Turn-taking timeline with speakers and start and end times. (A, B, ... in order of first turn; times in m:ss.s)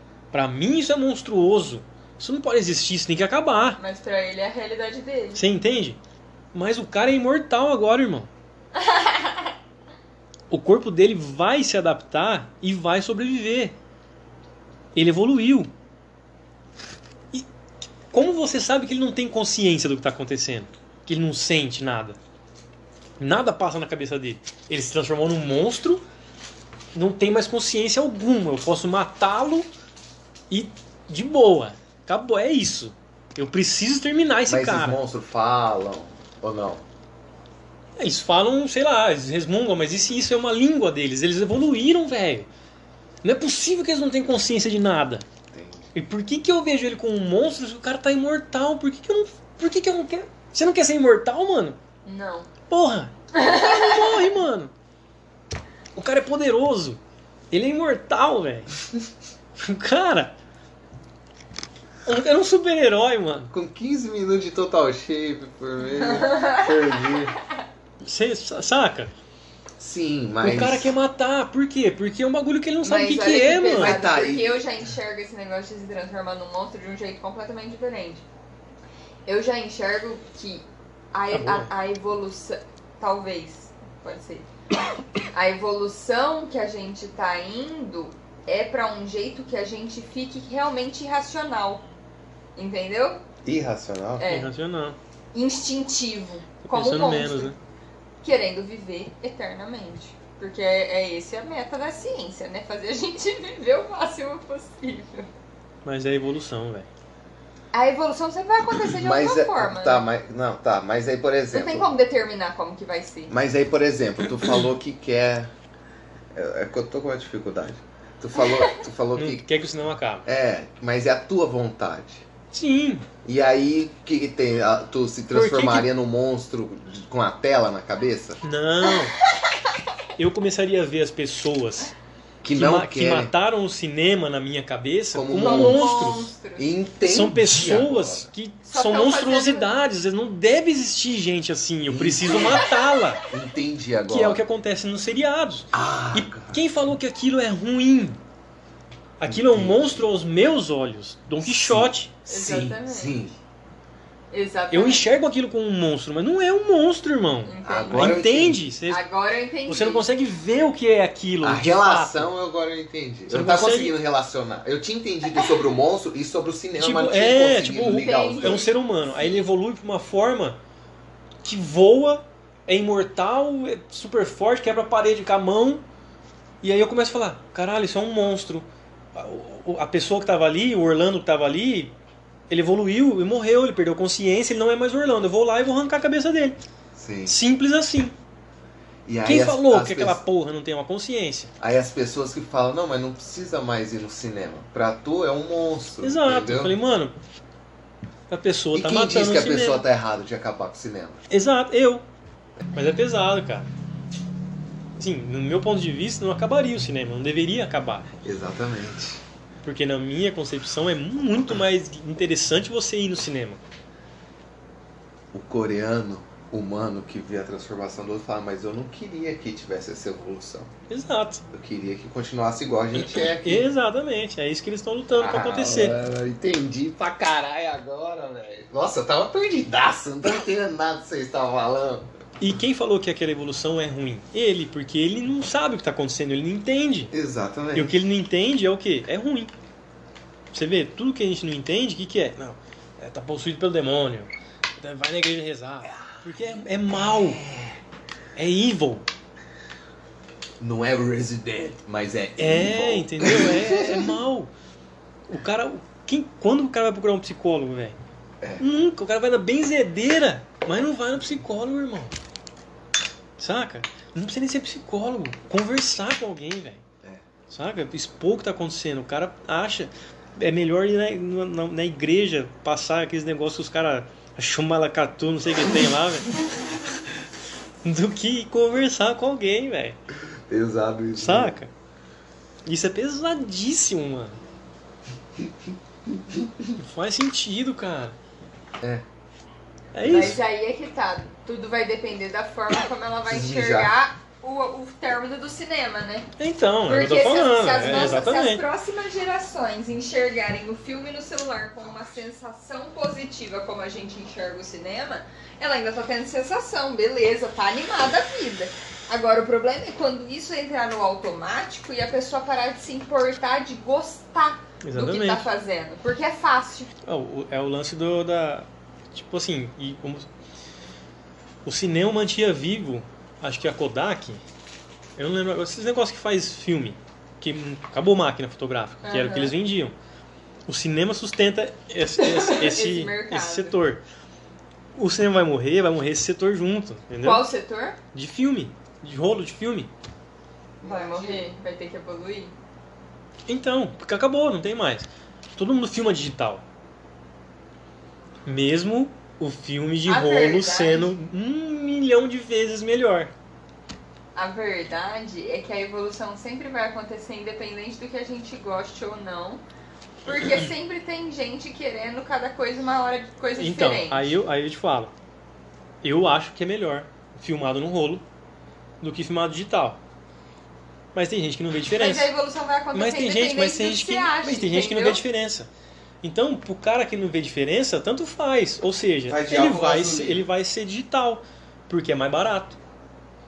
0:00.3-0:03.8 A
0:03.8-0:05.4 B
0:05.4-0:06.0 A
0:06.5-0:08.3 A
0:08.7-0:09.5 B
0:10.5-0:13.8 A
0:15.0-0:15.7 A
0:18.1-0:22.2 A
0:23.2-0:26.0 A
0:26.9-0:29.7 A
0:30.5-0:35.0 A
0:34.5-0:36.8 C
0:38.0-0:42.5 A
0:43.2-0:45.3 A
0:45.5-0:45.9 C
0:45.9-0:51.8 A
0:52.0-0:52.5 B
0:52.7-0:54.7 A
0:53.3-0:54.3 B
0:56.0-0:57.0 A
0:57.5-0:58.8 A
0:59.6-1:00.4 A
1:02.0-1:03.5 A
1:03.5-1:07.4 C
1:05.9-1:07.0 B
1:08.0-1:09.1 A
1:09.8-1:11.0 C
1:10.4-1:14.0 A
1:12.8-1:18.2 B
1:13.7-1:14.7 C
1:19.3-1:24.5 B
1:21.3-1:21.7 A
1:25.3-1:31.9 B
1:32.6-1:33.2 B
1:33.4-1:34.3 C
1:34.2-1:34.5 B
1:34.2-1:35.0 A
1:35.3-1:37.5 B
1:36.7-1:37.6 A
1:38.2-1:45.3 B
1:45.8-1:46.9 A
1:47.7-1:50.0 B
1:48.8-1:51.9 C
1:51.5-1:53.3 B
1:53.3-1:55.5 C
1:56.3-1:59.4 C
1:58.4-1:58.8 B
1:59.2-2:00.3 A
2:00.2-2:02.2 C
2:02.5-2:03.1 A
2:03.2-2:08.4 C
2:05.3-2:05.9 A
2:08.4-2:09.2 A
2:08.9-2:09.8 B
2:10.2-2:11.9 A
2:12.4-2:13.3 C
2:12.4-2:16.3 A
2:15.1-2:16.0 C
2:15.4-2:16.7 B
2:16.6-2:18.3 C
2:17.0-2:23.3 A
2:18.6-2:19.7 B
2:21.9-2:22.7 C
2:23.3-2:24.4 C
2:24.1-2:28.2 A
2:25.7-2:26.6 C
2:29.2-2:32.1 A
2:29.3-2:30.1 C
2:31.4-2:33.4 C
2:32.3-2:33.2 B
2:34.3-2:35.1 B
2:34.7-2:39.0 A
2:37.4-2:38.2 B
2:37.6-2:38.6 C
2:38.9-2:40.0 B
2:39.7-2:42.3 A
2:41.4-2:48.7 C
2:43.3-2:44.0 A
2:46.8-2:50.6 A
2:47.9-2:48.7 B
2:51.4-2:55.8 A
2:56.6-3:02.0 A
3:02.5-3:06.6 A
3:07.0-3:07.4 C
3:07.3-3:08.2 A
3:09.1-3:10.2 C
3:09.2-3:11.5 A
3:11.6-3:16.8 C
3:16.0-3:17.2 A
3:18.3-3:19.8 A
3:18.7-3:21.2 C
3:21.3-3:22.1 A
3:22.7-3:23.7 A
3:25.0-3:28.1 A
3:28.2-3:29.2 C
3:29.6-3:33.6 A
3:35.3-3:40.7 C
3:40.9-3:41.4 A
3:41.5-3:43.7 C
3:43.0-3:46.0 A
3:45.1-3:52.1 C
3:52.4-3:57.1 A
3:57.1-3:58.0 C
3:57.7-3:59.5 A
4:00.5-4:07.4 A
4:07.0-4:07.8 C
4:08.4-4:09.1 A
4:10.6-4:14.2 C
4:12.4-4:14.5 A
4:15.3-4:18.0 A
4:18.6-4:22.1 A
4:23.4-4:26.8 A
4:27.5-4:36.4 A
4:37.8-4:40.0 A
4:40.5-4:41.6 C
4:41.2-4:41.7 A
4:42.6-4:44.4 A
4:46.1-4:46.5 C
4:46.8-4:48.2 A
4:49.9-4:50.4 A
4:50.0-4:50.4 C
4:50.1-4:56.3 B
4:53.3-4:53.9 C
4:56.4-4:58.6 A
4:56.9-5:16.9 B
5:14.8-5:15.5 A
5:17.0-5:20.3 A
5:21.6-5:24.4 A
5:25.2-5:30.0 A
5:29.0-5:29.6 B
5:30.7-5:34.0 A
5:32.2-5:33.8 B
5:35.0-5:37.5 A
5:37.2-5:38.0 B
5:38.1-5:39.9 A
5:40.8-5:41.5 C
5:40.8-5:42.5 B
5:43.5-5:46.6 A
5:48.5-5:53.3 A
5:50.1-5:51.1 B
5:54.4-5:59.6 B
6:00.2-6:04.3 B
6:03.6-6:05.1 A
6:06.0-6:08.2 A
6:09.0-6:10.0 A
6:11.1-6:12.3 A
6:11.9-6:15.2 B
6:12.9-6:15.7 A
6:16.2-6:22.8 A
6:19.3-6:20.4 C